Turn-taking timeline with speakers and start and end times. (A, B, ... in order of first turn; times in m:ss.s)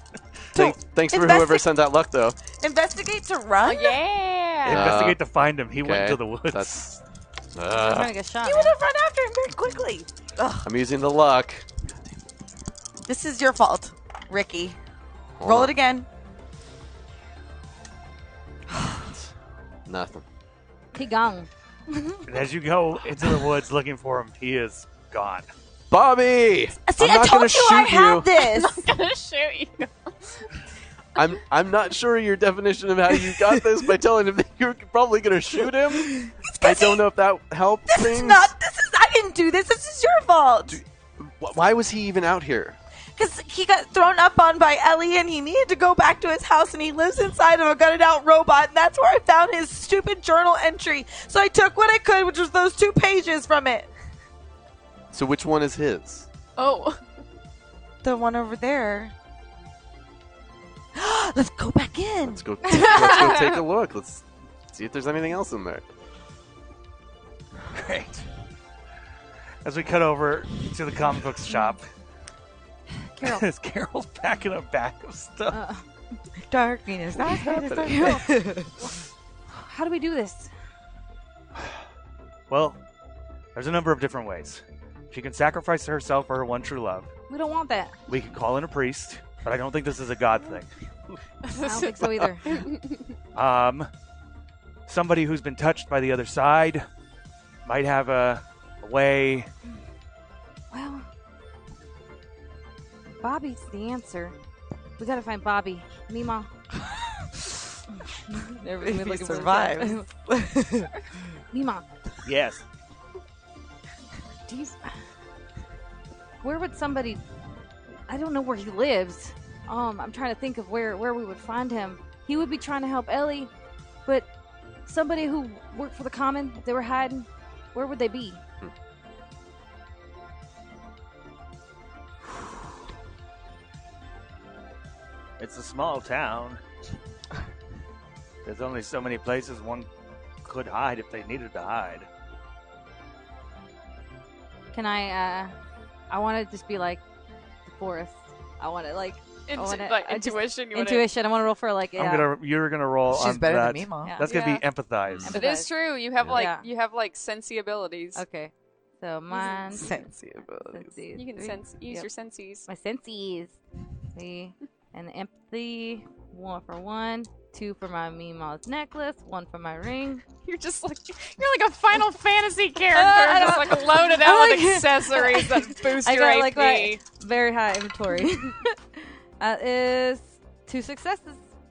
0:00.5-0:01.7 A
0:00.6-0:02.4 B
0:02.5-0:04.0 A
0:03.6-0:05.0 C
0:04.6-0:06.8 D
0:04.7-0:05.2 B
0:05.8-0:07.0 B
0:07.5-0:08.1 B
0:07.7-0:08.8 E
0:08.4-0:10.7 A
0:10.6-0:11.7 B
0:13.0-0:14.8 A
0:15.4-0:15.7 B
0:15.4-0:16.1 A
0:19.8-0:20.2 B
0:20.9-0:22.2 E
0:22.3-0:25.5 D
0:25.9-0:28.3 B
0:26.8-0:28.8 A
0:28.4-0:30.4 C
0:31.2-0:38.5 B
0:35.9-0:37.1 A
0:37.9-0:40.8 A
0:40.7-0:42.8 B
0:43.2-0:53.9 A
0:55.1-0:56.3 B
0:56.6-0:57.0 C
0:58.0-0:59.1 A
1:01.0-1:02.9 A
1:02.2-1:05.8 B
1:02.7-1:03.6 C
1:07.7-1:08.2 D
1:09.6-1:11.8 D
1:13.1-1:13.4 E
1:13.2-1:15.6 D
1:15.5-1:15.8 E
1:16.5-1:18.7 A
1:17.2-1:18.5 E
1:17.4-1:18.2 D
1:19.6-1:20.5 E
1:22.5-1:22.8 D
1:23.5-1:27.1 D
1:27.3-1:27.9 E
1:28.1-1:30.7 D
1:31.4-1:33.2 C
1:31.5-1:32.4 E
1:33.3-1:33.9 D
1:34.9-1:36.8 D
1:37.6-1:39.5 D
1:40.7-1:41.0 E
1:43.2-1:44.4 E
1:45.0-1:46.5 E
1:48.3-1:50.1 E
1:48.7-1:50.9 A
1:51.5-1:51.8 E
1:52.2-1:52.6 D
1:54.5-1:54.8 E
1:56.4-1:57.2 E
1:58.1-2:03.5 E
2:04.8-2:08.4 E
2:15.4-2:16.6 D
2:18.4-2:19.9 D
2:20.4-2:22.1 D
2:24.7-2:25.5 E
2:26.1-2:27.0 E
2:27.7-2:32.3 E
2:29.5-2:31.1 C
2:32.0-2:35.3 D
2:33.1-2:34.1 A
2:34.0-2:34.4 E
2:34.2-2:34.6 C
2:35.1-2:35.3 B
2:35.2-2:35.7 E
2:35.3-2:38.2 C
2:36.2-2:36.6 E
2:38.1-2:40.0 E
2:39.3-2:39.7 C
2:39.7-2:40.9 A
2:40.7-2:42.1 E
2:41.1-2:42.7 C
2:42.6-2:43.6 E
2:44.1-2:50.2 E
2:50.4-2:57.0 C
2:52.9-3:01.4 E